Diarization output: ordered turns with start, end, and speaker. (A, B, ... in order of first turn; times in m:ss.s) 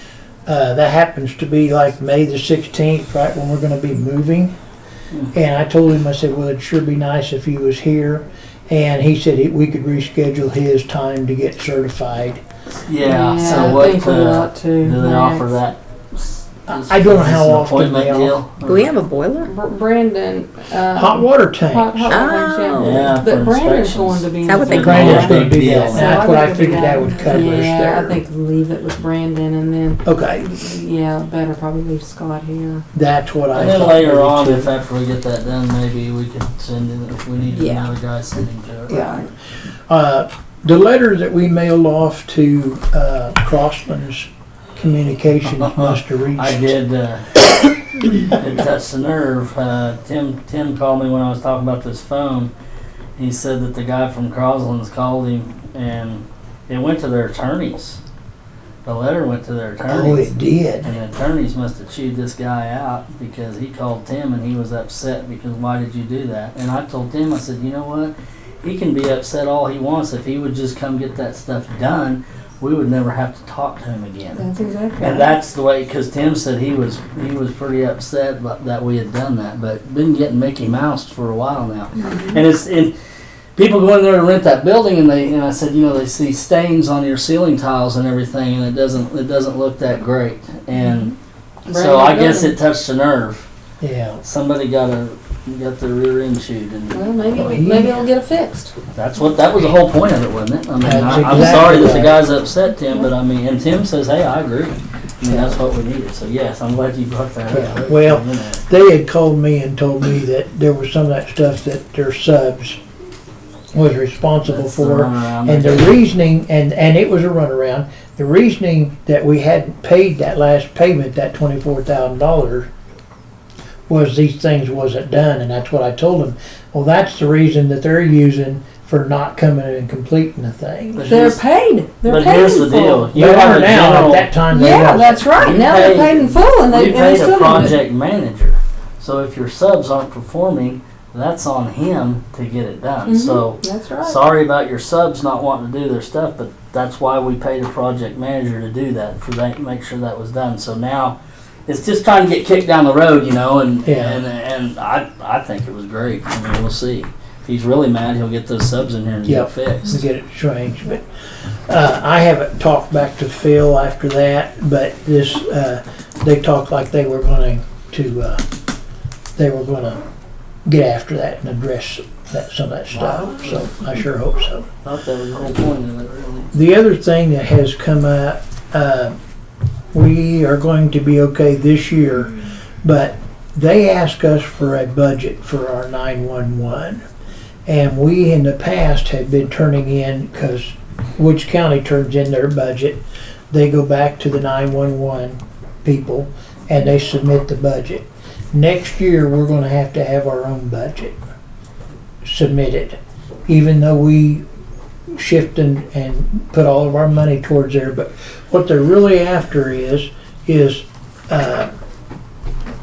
0:00.4-0:04.5 A
0:05.3-0:12.4 A
0:12.9-0:15.8 B
0:13.0-0:15.6 C
0:16.7-0:18.4 A
0:16.7-0:18.9 B
0:18.6-0:19.5 D
0:19.4-0:32.8 C
0:20.9-0:22.2 A
0:22.1-0:23.1 D
0:22.8-0:26.3 B
0:24.4-0:25.2 D
0:24.8-0:28.2 A
0:27.2-0:27.6 B
0:30.0-0:30.5 A
0:32.9-0:34.7 A
0:33.5-0:39.1 B
0:37.5-0:37.9 C
0:38.9-0:39.2 A
0:38.9-0:39.3 C
0:39.9-0:46.8 A
0:45.6-0:47.5 B
0:48.0-0:52.5 B
0:53.2-0:58.0 B
0:58.8-1:14.4 B
0:59.9-1:00.9 A
1:14.3-1:15.3 C
1:15.0-1:22.9 B
1:22.0-1:22.4 C
1:23.6-1:31.1 B
1:30.7-1:31.1 C
1:31.7-1:33.5 B
1:31.7-1:32.6 C
1:33.8-1:34.2 A
1:34.2-1:37.1 B
1:36.9-1:38.7 C
1:37.3-1:38.0 A
1:38.9-1:48.6 B
1:40.8-1:42.2 A
1:45.2-1:45.6 A
1:47.5-1:52.8 A
1:53.7-2:02.7 A
1:54.4-1:56.0 B
2:03.9-2:11.1 A
2:10.9-2:11.4 B
2:11.0-2:13.1 C
2:12.0-2:14.3 B
2:13.1-2:15.2 A
2:14.5-2:17.8 C
2:15.3-2:31.2 B
2:23.0-2:24.2 C
2:31.7-2:40.0 B
2:33.8-2:34.2 A
2:39.2-2:41.0 A
2:41.7-2:48.4 A
2:49.4-2:50.0 A
2:50.6-2:54.7 A
2:52.9-2:53.7 B
2:54.8-2:56.5 B
2:56.5-2:59.2 A
2:59.9-3:07.0 A
3:07.6-3:21.2 A
3:22.2-3:24.4 A
3:25.2-3:31.7 A